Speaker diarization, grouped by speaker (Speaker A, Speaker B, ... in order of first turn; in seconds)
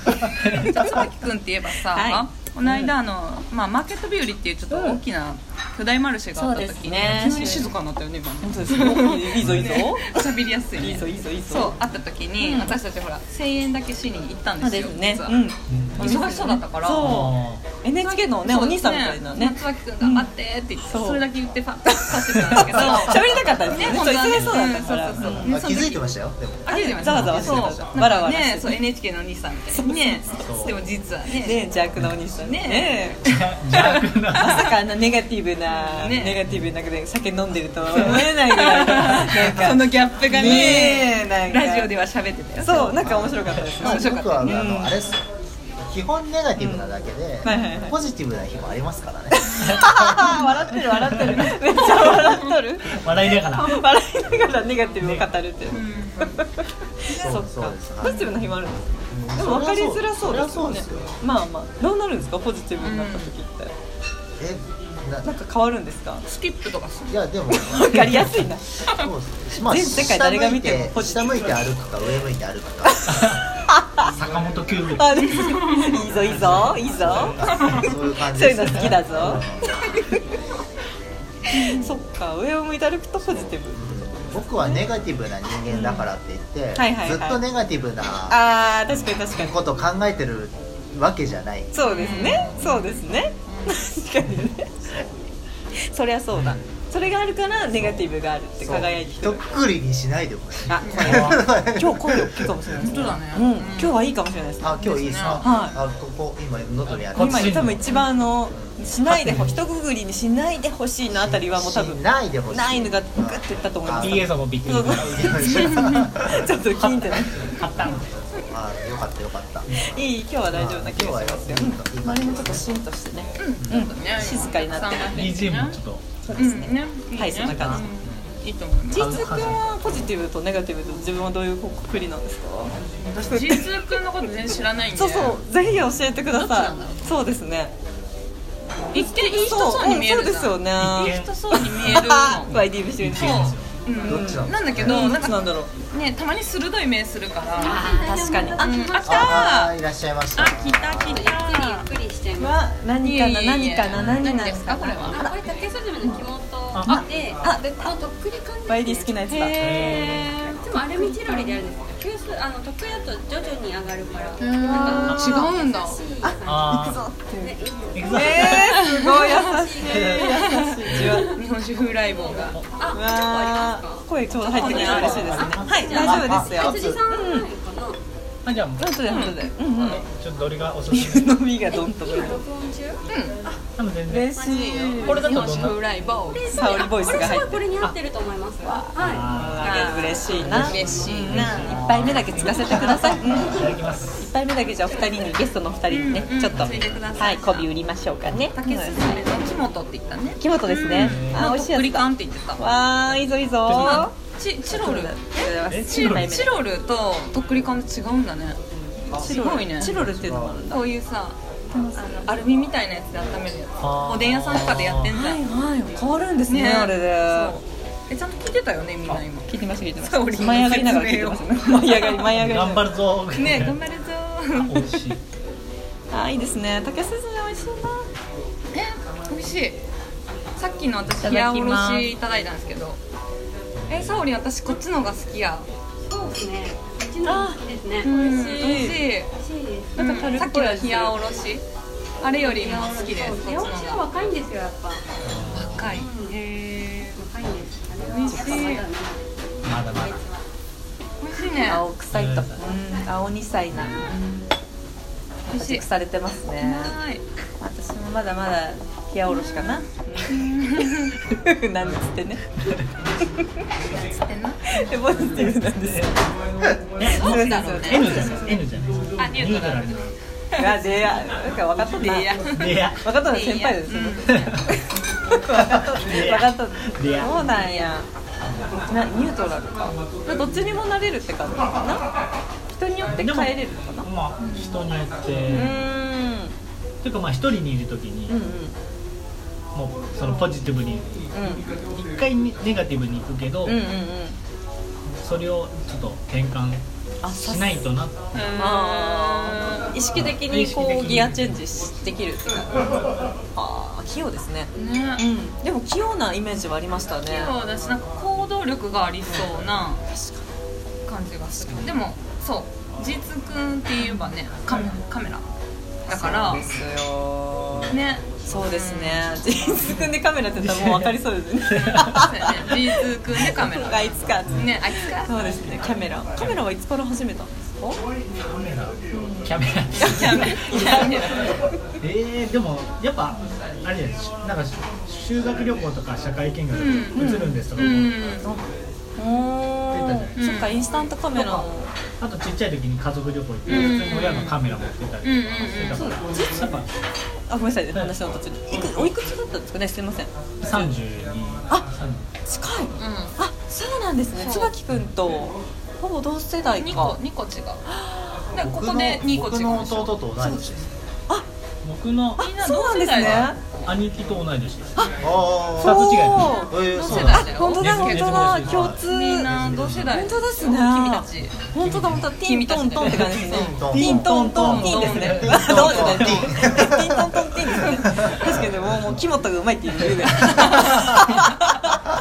Speaker A: 0.2-1.0, 9.4-9.8, 15.7-16.1, 17.0-17.6, 24.2-24.4, 30.3-30.8, 33.2-34.8, 49.6-49.9, 50.7-53.8, 55.0-55.3, 73.1-73.4, 74.0-75.2, 76.3-77.3, 101.0-101.4, 107.1-107.8, 109.0-109.5, 114.0-115.4, 116.6-118.1, 125.1-126.4, 128.9-129.7, 135.2-135.8, 140.7-143.8, 153.9-154.2, 156.7-157.1, 159.5-160.4, 166.4-167.1, 167.9-168.8, 169.9-170.3, 170.9-171.2, 174.7-177.0, 178.4-178.8, 179.8-181.4, 183.8-184.4, 185.0-185.8, 188.9-189.8, 190.3-194.3, 196.5-197.0, 200.9-201.5, 203.7-204.1, 205.7-206.4, 213.8-215.1, 222.3-223.8, 224.6-225.2, 233.8-234.3, 245.2-246.0, 249.6-250.2, 252.1-252.6, 253.7-254.0, 262.6-262.9, 267.0-270.1, 272.5-273.1, 274.3-274.6, 275.9-277.5, 283.1-285.9, 287.0-288.4, 289.7-293.8, 295.2-298.5, 300.1-301.6, 311.6-312.0, 320.6-322.4, 326.4-326.7, 328.4-331.0, 332.0-338.3, 339.9-340.6, 341.3-341.7, 342.2-346.9, 347.9-348.4, 350.6-352.3, 361.8-362.5, 363.2-365.1, 365.7-366.6, 367.6-369.1, 371.8-372.3, 373.0-373.4, 373.9-376.9, 378.3-379.1
Speaker B: 0.7-15.4, 16.0-17.2, 18.0-26.1, 26.6-31.7, 32.4-34.7, 36.0-36.4, 38.0-43.0, 43.8-44.6, 55.7-56.4, 58.0-58.3, 62.8-63.3, 66.2-67.2, 75.2-76.1, 77.6-77.9, 81.6-81.9, 91.8-93.8, 100.8-101.3, 102.8-104.0, 104.8-105.7, 115.5-116.1, 123.4-125.8, 126.3-129.2, 133.0-135.4, 136.3-137.1, 138.9-147.8, 148.6-149.8, 150.3-151.9, 153.0-155.3, 160.7-161.5, 164.4-166.1, 168.6-169.4, 170.2-172.5, 174.4-176.5, 179.1-179.9, 183.1-183.4, 184.4-187.3, 189.6-191.7, 192.5-193.2, 195.9-197.7, 198.6-202.6, 203.7-205.2, 205.8-208.6, 209.1-209.9, 210.7-211.4, 211.9-215.4, 216.5-222.4, 223.3-224.8, 228.7-229.8, 230.6-233.0, 233.9-235.7, 238.0-239.3, 239.9-241.6, 242.2-244.1, 245.5-247.2, 248.1-248.9, 251.2-251.8, 253.9-254.5, 255.5-255.8, 256.6-257.2, 260.3-261.1, 264.2-264.8, 267.0-268.6, 269.2-270.9, 271.9-274.5, 284.4-284.8, 298.3-299.9, 304.8-305.2, 307.2-310.0, 311.1-315.5, 316.0-316.6, 317.9-319.4, 322.1-325.6, 329.9-331.6, 336.7-338.4, 340.3-340.8, 343.6-344.6, 345.2-346.1, 353.0-353.3, 354.4-354.7, 356.8-357.8, 358.5-360.2, 362.4-363.9, 366.3-371.6, 372.3-376.4, 380.4-381.4
Speaker C: 1.9-2.9, 4.7-5.0, 6.3-7.7, 8.4-10.2, 10.7-11.7, 12.4-12.8, 14.6-20.3, 20.8-21.2, 22.4-25.6, 26.7-28.8, 29.7-30.8, 31.3-33.2, 34.4-41.9, 42.6-45.0, 46.5-46.9, 47.4-48.0, 49.3-52.9, 53.5-63.7, 65.2-66.2, 67.5-68.6, 69.6-71.5, 73.0-74.1, 75.0-80.2, 81.5-84.8, 85.7-86.0, 86.8-87.4, 88.3-89.5, 91.7-94.7, 95.9-99.4, 100.7-105.8, 107.1-117.6, 119.7-125.3, 126.2-127.8, 128.9-132.7, 133.2-133.9, 134.9-137.7, 138.9-145.7, 147.6-149.4, 152.3-155.4, 156.8-158.0, 158.7-160.1, 164.6-165.5, 166.2-167.5, 168.1-171.4, 172.9-177.5, 178.8-180.0, 180.9-182.4, 184.1-185.2, 186.5-187.7, 188.7-199.3, 200.4-206.5, 209.2-210.8, 211.7-212.4, 215.1-217.6, 219.5-222.9, 226.1-228.1, 231.2-232.1, 237.2-239.0, 239.9-241.2, 248.2-248.8, 251.6-254.1, 255.5-256.9, 257.6-260.7, 261.2-262.4, 264.7-266.2, 267.1-268.4, 270.6-272.4, 273.0-278.1, 278.9-282.0, 282.7-284.1, 285.5-286.5, 288.3-288.7, 291.3-291.7, 293.6-294.4, 297.2-297.8, 298.6-302.7, 303.5-307.5, 310.1-310.4, 314.0-314.9, 316.1-328.0, 329.1-329.5, 330.0-331.3, 337.1-337.6, 339.2-341.9, 345.9-346.8, 347.5-350.9, 352.4-357.2, 357.9-358.4, 360.4-360.7, 362.4-363.6, 365.7-382.0
Speaker D: 25.4-28.0, 42.8-45.2, 45.8-50.8, 57.1-58.5, 59.1-61.2, 64.4-65.3, 67.1-68.0, 68.9-73.2, 76.0-79.7, 83.2-88.4, 89.3-92.5, 98.6-103.1, 104.6-107.8, 108.5-108.8, 111.1-116.5, 117.9-119.7, 120.5-122.7, 123.6-124.5, 128.0-128.3, 144.0-145.2, 149.0-151.3, 209.1-210.6, 358.6-360.9, 365.2-367.7, 369.4-370.3, 373.4-378.3
Speaker E: 147.6-149.2, 151.0-152.6, 155.1-171.3, 172.1-178.0, 181.7-183.0, 184.3-190.6, 193.3-193.8, 194.8-195.4, 236.0-240.4, 242.4-245.1, 245.9-246.3, 247.1-250.4